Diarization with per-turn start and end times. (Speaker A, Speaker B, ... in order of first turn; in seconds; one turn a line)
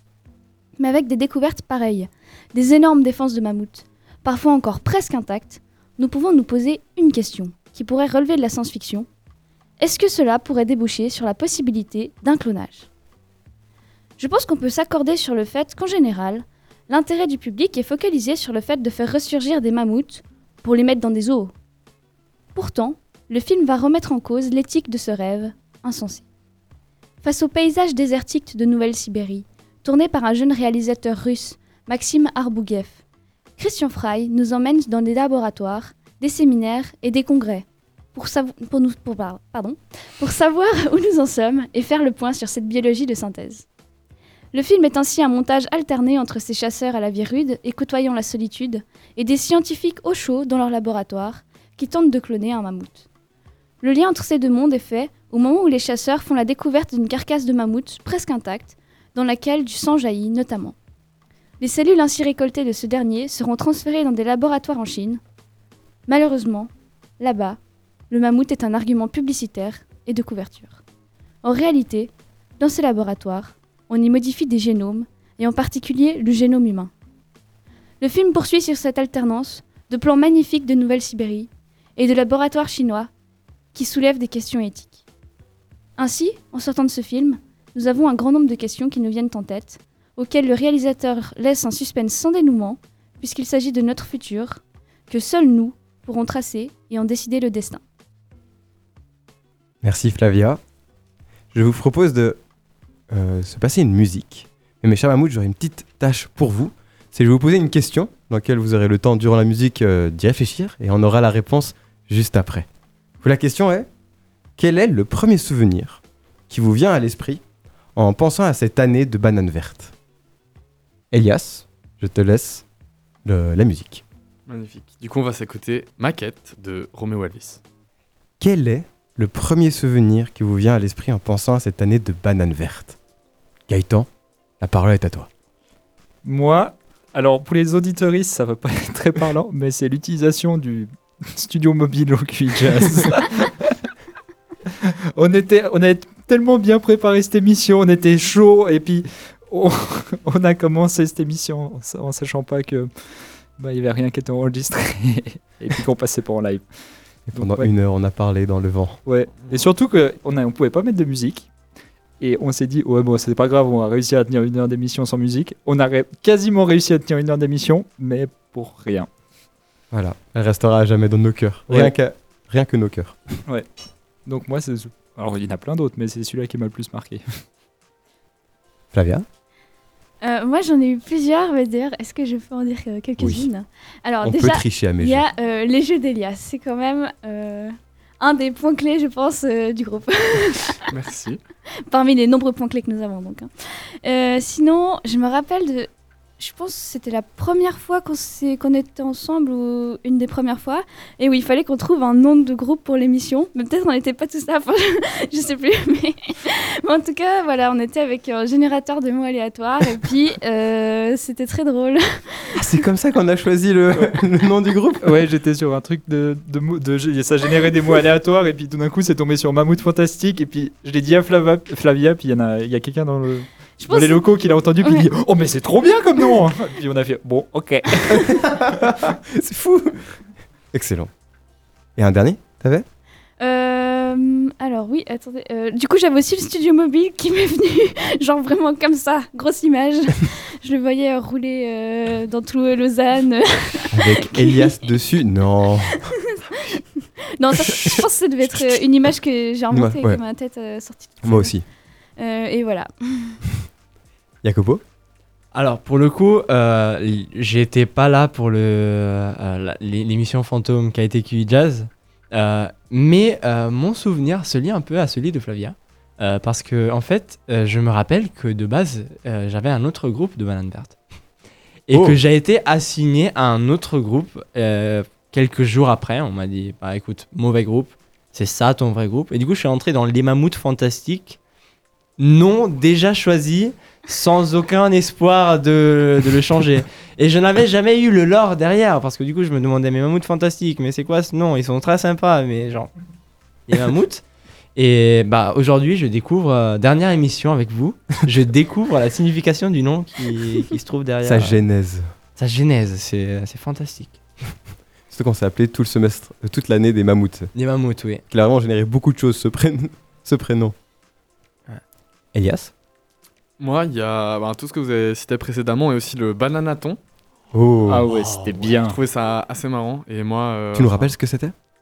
Speaker A: 0.8-9.1
Speaker A: 9.8-12.9
Speaker A: 14.2-21.5
Speaker A: 22.6-26.3
Speaker A: 27.2-33.0
Speaker A: 33.6-43.6
Speaker A: 44.5-53.1
Speaker A: 53.8-60.8
Speaker A: 61.6-65.2
Speaker A: 66.1-67.6
Speaker A: 68.1-70.8
Speaker A: 71.4-76.9
Speaker A: 78.0-83.1
Speaker A: 83.7-85.0
Speaker A: 86.0-97.8
Speaker B: 99.8-100.6
Speaker B: 101.5-102.4
Speaker B: 103.1-112.7
Speaker B: 113.2-113.9
Speaker B: 114.6-117.4
Speaker B: 118.0-119.9
Speaker B: 121.1-122.7
Speaker B: 123.2-124.0
Speaker C: 124.5-127.6
Speaker B: 128.4-133.0
Speaker B: 133.7-134.1
Speaker B: 134.6-135.3
Speaker D: 136.2-143.7
Speaker D: 144.8-152.9
Speaker D: 153.6-156.7
Speaker D: 157.3-157.7
Speaker B: 157.3-159.0
Speaker D: 159.1-161.5
Speaker D: 162.2-169.1
Speaker B: 169.9-173.2
Speaker D: 174.3-177.2
Speaker B: 178.9-179.3
Speaker A: 180.2-190.9
Speaker B: 183.2-183.5
Speaker B: 184.2-185.2
Speaker C: 190.9-191.4
Speaker A: 191.9-193.5
Speaker A: 194.0-212.6
Speaker B: 212.6-215.2
Speaker D: 215.0-228.4
Speaker A: 223.8-225.1
Speaker B: 228.1-230.1
Speaker B: 230.7-231.1
Speaker B: 232.0-232.9
Speaker A: 233.4-244.8
Speaker B: 243.9-246.1
Speaker A: 246.3-246.8
Speaker A: 247.4-251.5
Speaker B: 247.6-248.8
Speaker B: 249.7-250.2
Speaker B: 251.2-251.7
Speaker A: 252.2-253.4
Speaker B: 254.4-254.8
Speaker E: 255.5-271.0
Speaker E: 271.9-281.4
Speaker B: 271.9-272.2
Speaker E: 282.2-292.9
Speaker E: 293.7-294.2
Speaker E: 294.8-301.6
Speaker B: 301.2-302.1
Speaker E: 302.4-304.2
Speaker B: 305.1-307.5
Speaker E: 307.6-308.2
Speaker B: 308.3-310.8
Speaker B: 312.3-312.7
Speaker C: 313.6-317.0
Speaker B: 317.5-318.1
Speaker D: 317.9-319.0
Speaker C: 318.4-321.1
Speaker B: 320.7-321.5